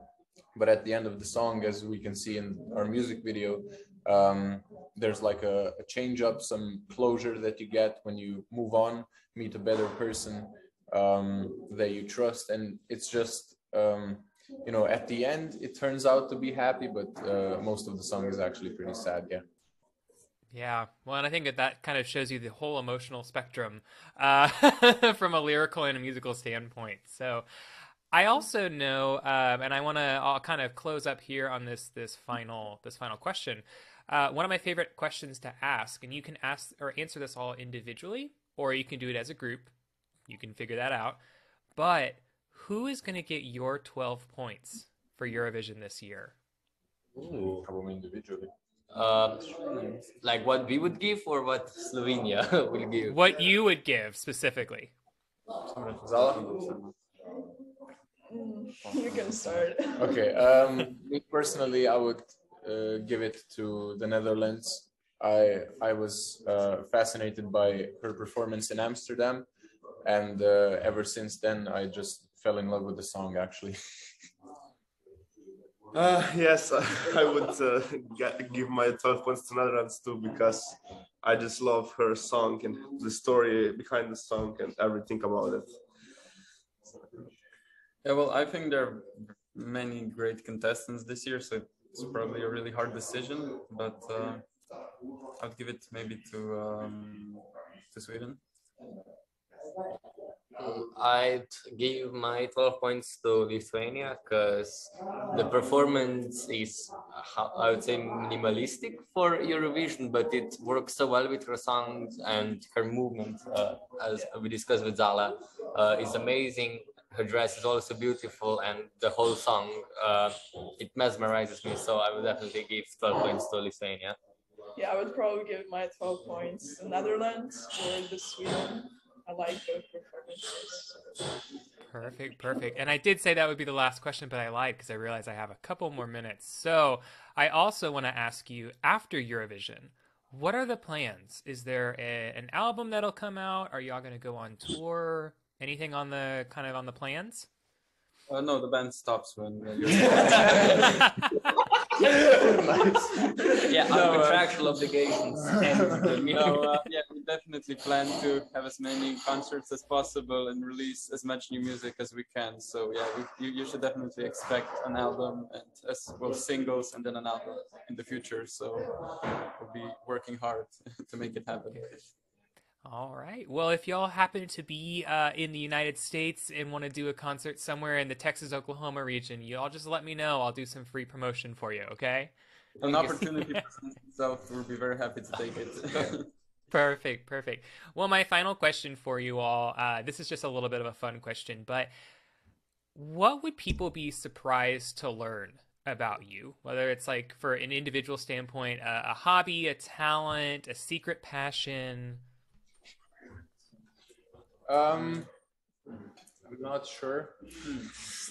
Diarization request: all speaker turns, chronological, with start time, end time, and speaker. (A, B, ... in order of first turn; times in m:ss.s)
0:00.5-0:19.4 A
0:20.5-0:27.4 B
0:28.1-0:39.7 B
0:40.3-0:41.2 B
0:41.8-0:46.3 B
0:47.2-0:47.6 C
0:47.4-0:48.5 A
0:48.9-0:53.2 C
0:49.7-0:50.0 D
0:53.0-0:54.9 B
0:55.7-0:56.9 D
0:56.0-0:56.4 A
0:58.3-1:00.1 E
1:00.0-1:09.5 A
1:10.0-1:13.8 A
1:15.9-1:25.7 F
1:28.0-1:34.4 D
1:35.4-1:38.4 D
1:40.6-2:04.2 C
2:04.8-2:11.0 E
2:11.9-2:27.5 B
2:28.3-2:31.1 D
2:33.7-2:36.7 C
2:33.7-2:34.5 D
2:35.9-2:52.1 D
2:52.8-3:03.5 B
3:02.8-3:06.3 D
3:06.7-3:11.9 B
3:12.9-3:22.2 B
3:24.7-3:25.3 A
3:26.4-3:27.4 A